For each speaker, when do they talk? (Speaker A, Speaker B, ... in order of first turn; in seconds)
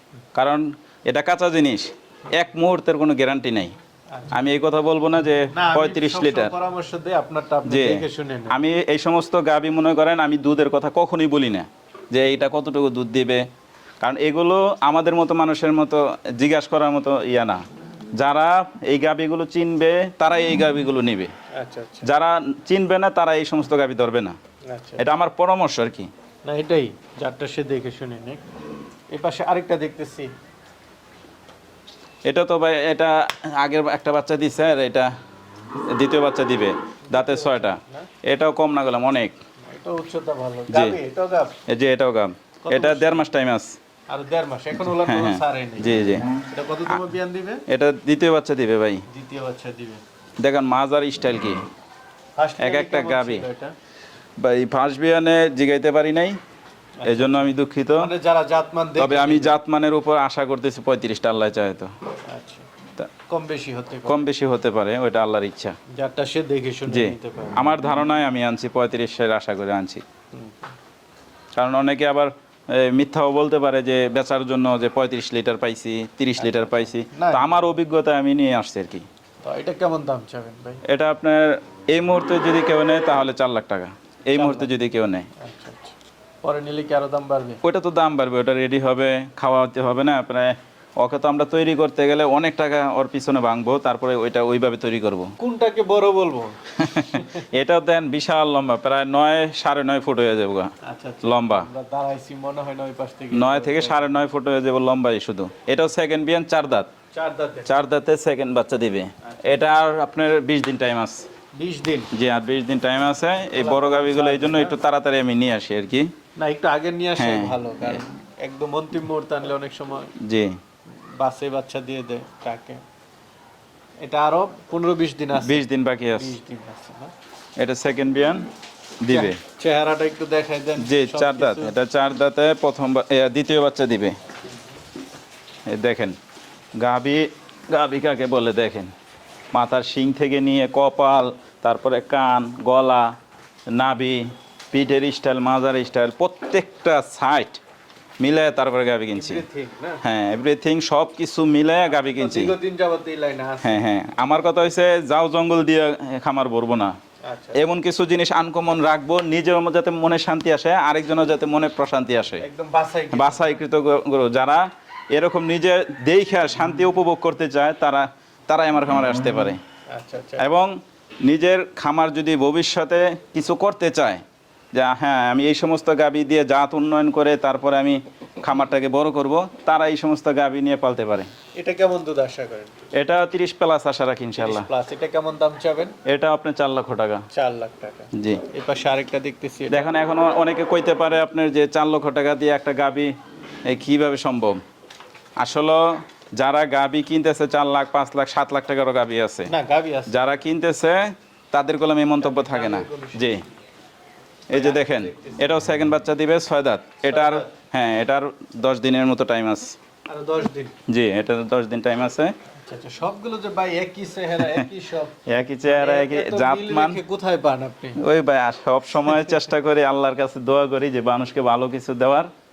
Speaker A: 0.3-3.7, 4.3-6.5, 7.7-13.4, 14.0-17.6, 18.2-21.3, 22.0-24.4, 25.0-26.1, 32.2-35.1, 35.9-39.4, 40.7-41.0, 41.7-43.7, 45.0-46.2, 47.7-49.0, 50.4-51.6, 52.6-53.4, 54.4-56.4, 57.0-58.1, 59.0-61.9, 64.0-65.8, 66.9-70.0, 71.5-79.0, 80.9-85.3, 87.6-95.3, 96.8-100.7, 101.2-101.7, 103.3-106.9, 107.7-111.2, 112.1-116.1, 117.2-118.0, 120.2-120.6, 125.4-126.3, 127.6-128.5, 129.0-129.4, 130.8-134.2, 135.7-136.2, 136.8-138.9, 139.5-143.1, 143.7-147.6, 148.2-149.4, 150.0-152.5, 153.6-156.9, 157.5-162.4, 163.1-169.6, 170.4-181.3, 182.9-184.7, 186.1-187.2, 188.2-188.4, 189.7-193.1, 193.6-194.6, 195.4-199.5, 200.1-203.4, 204.5-209.8, 210.9-212.3, 214.4-214.7, 215.3-217.0, 218.0-222.3
Speaker B: 4.1-4.5, 5.5-8.6, 21.6-22.1, 24.7-25.0, 26.5-28.4, 29.1-30.3, 37.1-38.1, 39.7-41.5, 42.6-43.2, 44.1-45.9, 46.4-47.6, 49.1-50.0, 52.4-53.7, 57.0-59.5, 62.3-62.7, 63.3-64.2, 65.9-67.7, 70.3-70.7, 76.4-77.5, 79.4-80.8, 84.3-84.7, 85.4-87.6, 95.4-97.4, 100.8-104.3, 107.1-107.7, 111.5-112.1, 113.5-114.8, 116.4-120.1, 121.2-122.8, 124.0-127.1, 129.1-131.7, 149.1-150.0, 151.9-153.8, 157.3-157.6, 162.4-163.6, 169.9-170.5, 181.6-182.8, 184.4-185.9, 187.3-189.9, 199.5-200.3, 202.2-203.3, 204.5-205.5, 207.0-207.5, 210.1-210.7, 212.6-218.0